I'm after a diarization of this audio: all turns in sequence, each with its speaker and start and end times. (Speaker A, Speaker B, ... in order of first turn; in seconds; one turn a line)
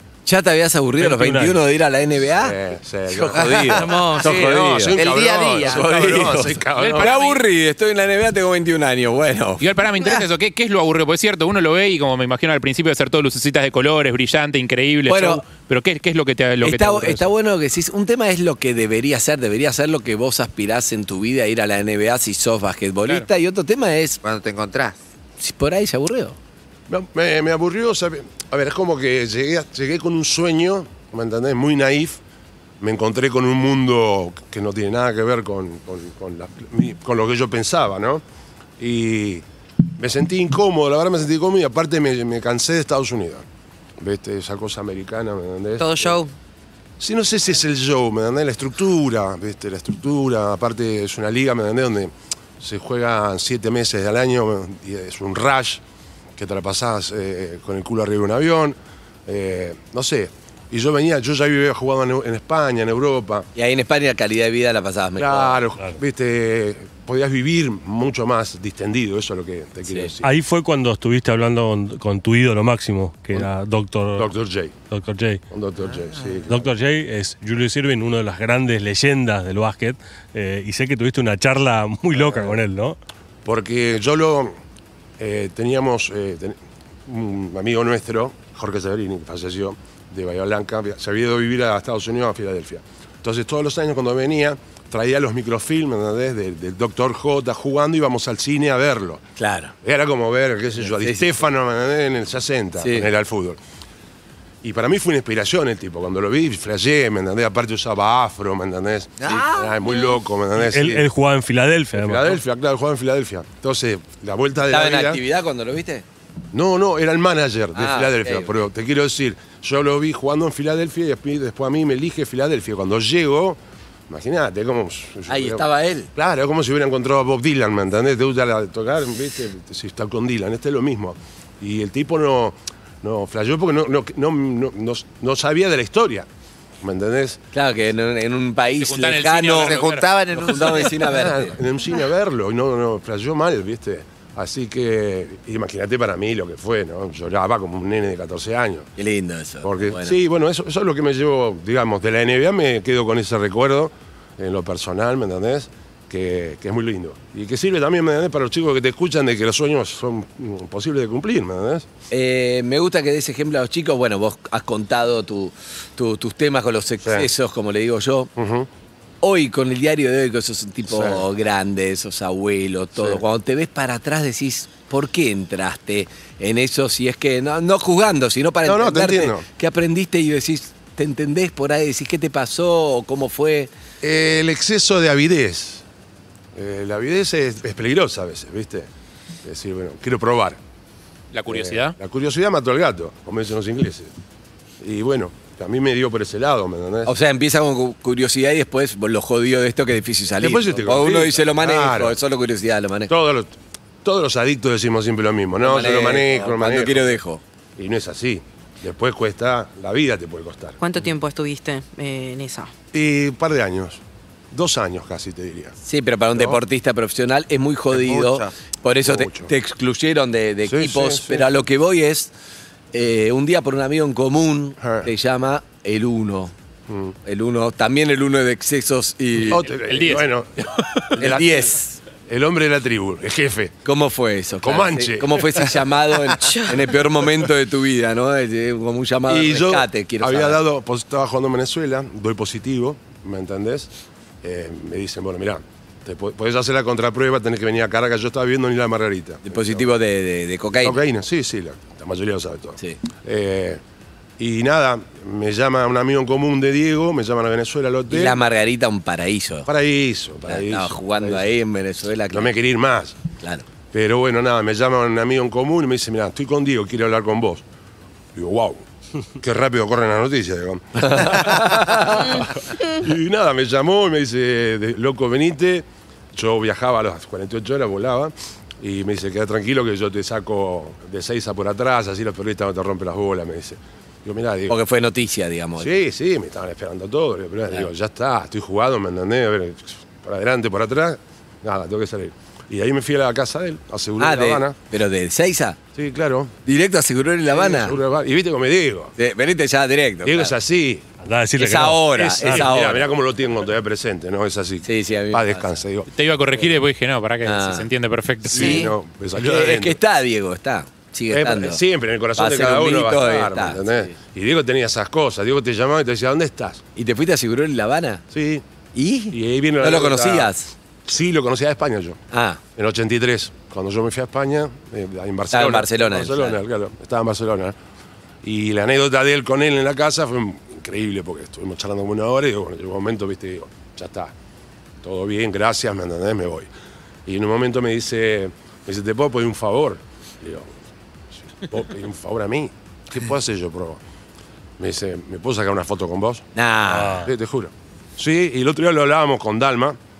Speaker A: 0.2-2.5
Speaker B: 1.0-1.6
Speaker C: 2.4-7.2
Speaker A: 3.1-9.6
Speaker D: 3.3-4.2
Speaker E: 3.8-4.3
Speaker D: 4.9-5.9
Speaker F: 6.8-7.4
Speaker F: 9.6-17.2
Speaker A: 15.1-15.4
Speaker A: 16.6-24.2
Speaker D: 24.2-25.0
Speaker A: 25.4-26.4
Speaker C: 26.9-32.2
Speaker C: 32.8-38.2
Speaker C: 38.8-39.4
Speaker C: 40.0-43.5
Speaker C: 44.0-46.2
Speaker E: 45.8-46.3
Speaker C: 47.0-55.8
Speaker C: 56.4-63.5
Speaker A: 63.5-65.6
Speaker C: 65.2-70.3
Speaker B: 70.2-74.3
Speaker C: 74.2-74.7
Speaker B: 74.9-75.4
Speaker C: 75.5-76.7
Speaker B: 76.5-83.0
Speaker C: 82.2-82.5
Speaker C: 83.4-84.5
Speaker C: 85.2-99.3
Speaker A: 99.4-99.7
Speaker C: 99.8-103.6
Speaker A: 100.9-101.2
Speaker A: 102.8-103.1
Speaker C: 104.6-111.0
Speaker D: 109.2-110.1
Speaker B: 110.6-112.4
Speaker C: 111.9-115.2
Speaker A: 114.7-116.0
Speaker C: 116.5-125.6
Speaker A: 117.7-118.5
Speaker A: 125.3-126.1
Speaker C: 126.1-136.3
Speaker C: 136.8-137.4
Speaker A: 137.5-139.8
Speaker F: 138.8-140.1
Speaker D: 139.6-141.2
Speaker A: 140.3-141.5
Speaker C: 141.1-148.9
Speaker A: 149.0-150.1
Speaker C: 149.6-161.9
Speaker A: 162.1-168.3
Speaker C: 167.0-167.3
Speaker C: 168.3-168.7
Speaker A: 169.2-183.7
Speaker C: 170.9-171.2
Speaker C: 172.9-173.2
Speaker C: 178.6-179.4
Speaker C: 184.0-185.8
Speaker C: 186.5-188.9
Speaker C: 189.4-190.6
Speaker F: 191.3-191.9
Speaker C: 191.5-194.1
Speaker C: 194.8-197.1
Speaker A: 197.1-203.1
Speaker C: 200.4-202.2
Speaker C: 203.1-207.2
Speaker A: 205.6-207.4
Speaker C: 207.8-210.8
Speaker E: 210.8-212.7
Speaker C: 212.9-215.8
Speaker A: 215.8-222.3
Speaker C: 216.3-216.6
Speaker D: 217.9-218.5
Speaker C: 219.0-219.5
Speaker C: 220.7-221.4
Speaker A: 222.9-226.5
Speaker C: 224.8-225.1
Speaker C: 226.9-227.2
Speaker A: 227.2-229.6
Speaker C: 229.4-230.6
Speaker F: 229.8-231.1
Speaker C: 231.2-231.7
Speaker A: 231.2-232.0
Speaker C: 232.3-233.8
Speaker A: 233.8-240.6
Speaker C: 234.6-235.7
Speaker C: 239.3-243.9
Speaker C: 244.4-249.9
Speaker A: 249.4-251.0
Speaker C: 250.8-253.8
Speaker C: 254.4-258.4
Speaker A: 258.1-259.7
Speaker C: 259.6-261.4
Speaker A: 260.5-262.5
Speaker C: 262.3-263.2
Speaker A: 263.4-263.6
Speaker C: 263.9-267.6
Speaker C: 268.3-268.8
Speaker C: 269.4-284.8
Speaker A: 271.0-272.3
Speaker A: 284.7-285.9
Speaker C: 285.8-294.8
Speaker A: 294.2-295.8
Speaker C: 295.9-296.6
Speaker A: 296.6-298.0
Speaker C: 297.5-299.1
Speaker A: 299.2-300.5
Speaker C: 300.2-301.0
Speaker B: 301.2-302.7
Speaker A: 301.6-303.1
Speaker C: 302.2-306.1
Speaker A: 304.8-305.7
Speaker F: 306.1-308.9
Speaker A: 307.4-307.9
Speaker C: 308.5-310.0
Speaker E: 308.5-308.9
Speaker A: 309.4-311.8
Speaker C: 311.3-316.8
Speaker A: 312.4-314.1
Speaker A: 316.9-318.2
Speaker C: 318.3-318.6
Speaker A: 318.9-320.7
Speaker C: 319.3-320.5
Speaker C: 321.0-322.2
Speaker A: 322.3-322.6
Speaker C: 322.7-327.8
Speaker A: 325.5-326.6
Speaker C: 328.4-334.3
Speaker C: 335.0-336.7
Speaker C: 337.2-340.8
Speaker C: 341.3-344.0
Speaker C: 344.8-346.5
Speaker A: 346.5-347.2
Speaker B: 346.9-347.3
Speaker C: 347.2-350.0